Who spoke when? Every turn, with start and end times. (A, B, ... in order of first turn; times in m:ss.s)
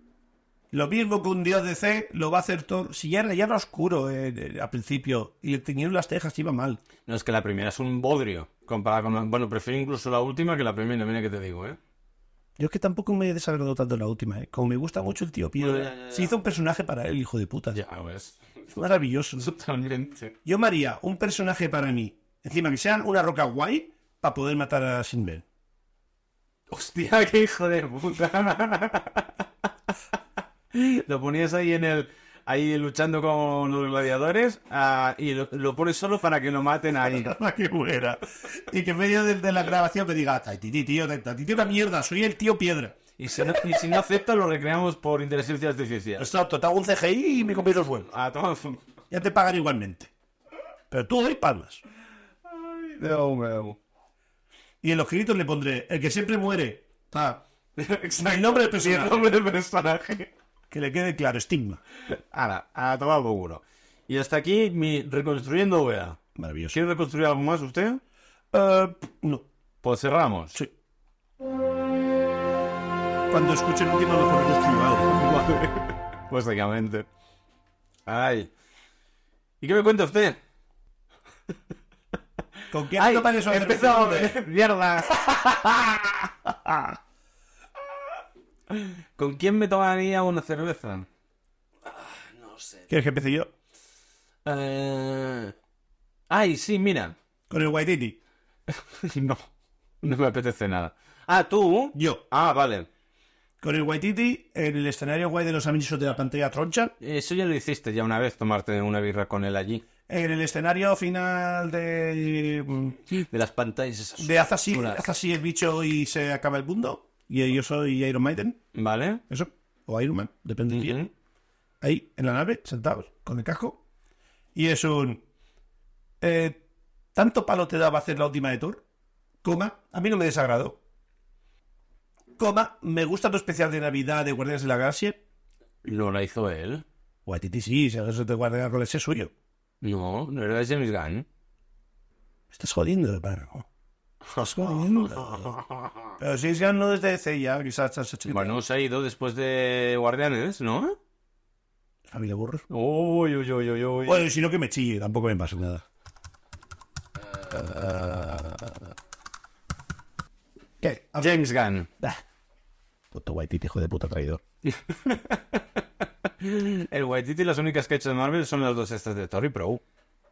0:00.7-0:06.8 A
0:07.1-0:11.8 B
0:12.6-0:17.8 A
0:15.6-0:16.4 B
0:17.7-0:18.4 B
0:18.7-0:19.5 A
0:19.4-0:20.3 B
0:20.4-0:25.4 A
0:26.7-0:29.3 B
0:30.7-0:37.3 B
0:37.0-0:43.7 A
0:43.2-0:46.3 B
0:46.2-0:48.1 A
0:48.1-0:48.8 B
0:49.1-0:50.1 A
0:50.9-0:51.8 A
0:52.5-0:53.8 B
0:54.8-0:57.4 A
0:57.8-1:00.3 B
0:58.2-0:59.3 A
1:00.7-1:01.8 A
1:02.1-1:06.2 B
1:06.4-1:06.8 A
1:06.7-1:08.0 B
1:08.5-1:09.5 A
1:09.8-1:10.6 B
1:13.3-1:15.2 A
1:15.2-1:17.1 B
1:18.1-1:18.5 B
1:19.6-1:20.4 B
1:22.7-1:24.4 A
1:23.0-1:26.3 B
1:26.5-1:27.0 A
1:28.7-1:31.1 B
1:31.9-1:32.9 B
1:32.9-1:33.5 A
1:34.4-1:35.5 B
1:36.3-1:37.2 B
1:37.5-1:38.2 A
1:38.7-1:39.5 B
1:40.0-1:42.9 B
1:41.9-1:42.2 A
1:43.6-1:47.0 A
1:47.0-1:49.8 B
1:50.1-1:53.0 A
1:53.1-1:55.0 B
1:54.2-1:58.6 A
1:58.8-1:59.2 B
1:59.3-2:01.1 A
2:00.7-2:01.1 B
2:01.8-2:03.8 A
2:04.6-2:05.2 A
2:06.2-2:06.6 A
2:07.2-2:08.8 A
2:09.4-2:10.8 A
2:12.4-2:15.2 A
2:15.8-2:16.8 B
2:17.3-2:19.3 A
2:19.8-2:21.3 B
2:22.5-2:23.7 A
2:24.4-2:25.6 A
2:25.2-2:25.8 B
2:26.2-2:28.6 A
2:28.3-2:31.0 B
2:32.1-2:32.7 A
2:32.7-2:34.3 B
2:34.1-2:35.8 A
2:37.4-2:38.7 B
2:40.8-2:41.3 A
2:41.2-2:41.9 B
2:43.1-2:44.4 A
2:44.7-2:45.6 B
2:46.4-2:49.8 B